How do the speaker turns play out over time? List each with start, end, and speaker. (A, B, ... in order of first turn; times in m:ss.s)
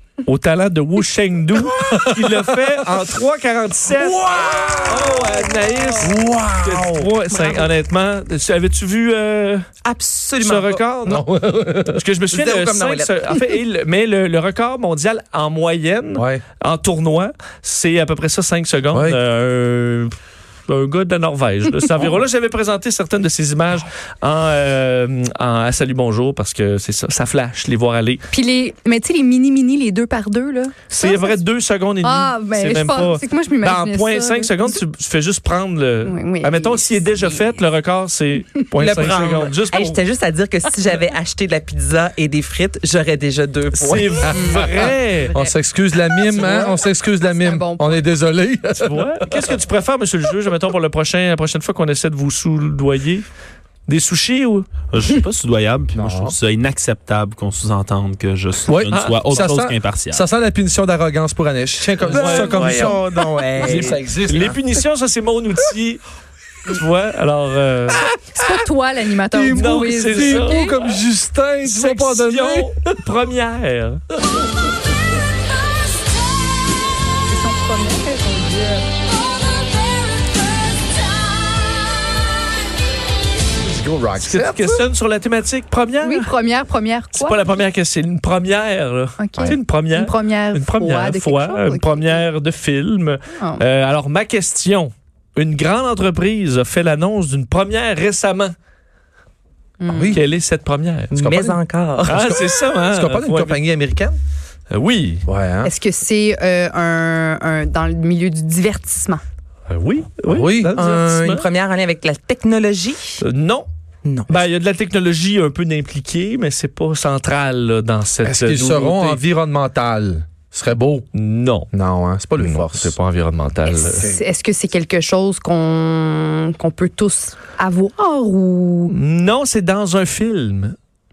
0:00.2-0:09.6 A
0:01.6-0:02.6 B
0:03.9-0:05.4 B
0:06.0-0:07.1 B
0:07.3-0:07.7 C
0:09.8-0:10.8 C
0:10.4-0:11.3 A
0:11.0-0:12.0 B
0:11.8-0:20.1 A
0:12.3-0:13.3 C
0:16.1-0:16.4 B
0:18.9-0:19.2 B
0:20.7-0:28.2 A
0:28.3-0:31.3 D
0:30.9-0:40.0 A
0:32.0-0:34.5 D
0:36.0-0:37.3 D
0:38.8-0:45.5 C
0:43.7-0:45.3 A
0:44.6-0:49.5 B
0:46.3-0:46.8 A
0:47.3-0:48.0 D
0:48.8-0:53.2 A
0:53.9-0:54.7 A
0:54.9-1:00.3 E
0:55.9-0:56.4 B
0:58.6-1:04.6 B
0:58.9-0:59.3 A
1:02.0-1:03.0 A
1:02.1-1:04.0 C
1:03.6-1:06.0 A
1:06.7-1:08.0 A
1:08.4-1:10.6 D
1:09.3-1:12.7 B
1:09.5-1:11.0 A
1:11.6-1:14.0 A
1:17.3-1:18.9 D
1:23.6-1:24.8 B
1:24.2-1:26.3 A
1:26.0-1:27.3 D
1:27.1-1:38.5 A
1:29.2-1:32.1 D
1:39.8-1:40.1 D
1:39.9-1:40.2 B
1:40.1-1:41.1 A
1:41.1-1:42.3 C
1:41.1-1:44.2 B
1:42.0-1:43.6 A
1:44.7-1:45.2 A
1:45.2-1:45.7 B
1:45.6-1:49.2 D
1:49.7-1:51.4 A
1:50.2-1:51.1 B
1:50.8-1:53.2 C
1:53.2-1:53.7 A
1:54.0-1:54.3 C
1:54.3-1:59.2 A
1:58.2-2:01.1 B
2:01.1-2:01.7 A
2:01.7-2:02.9 B
2:02.4-2:04.1 A
2:03.7-2:08.9 D
2:08.9-2:10.7 A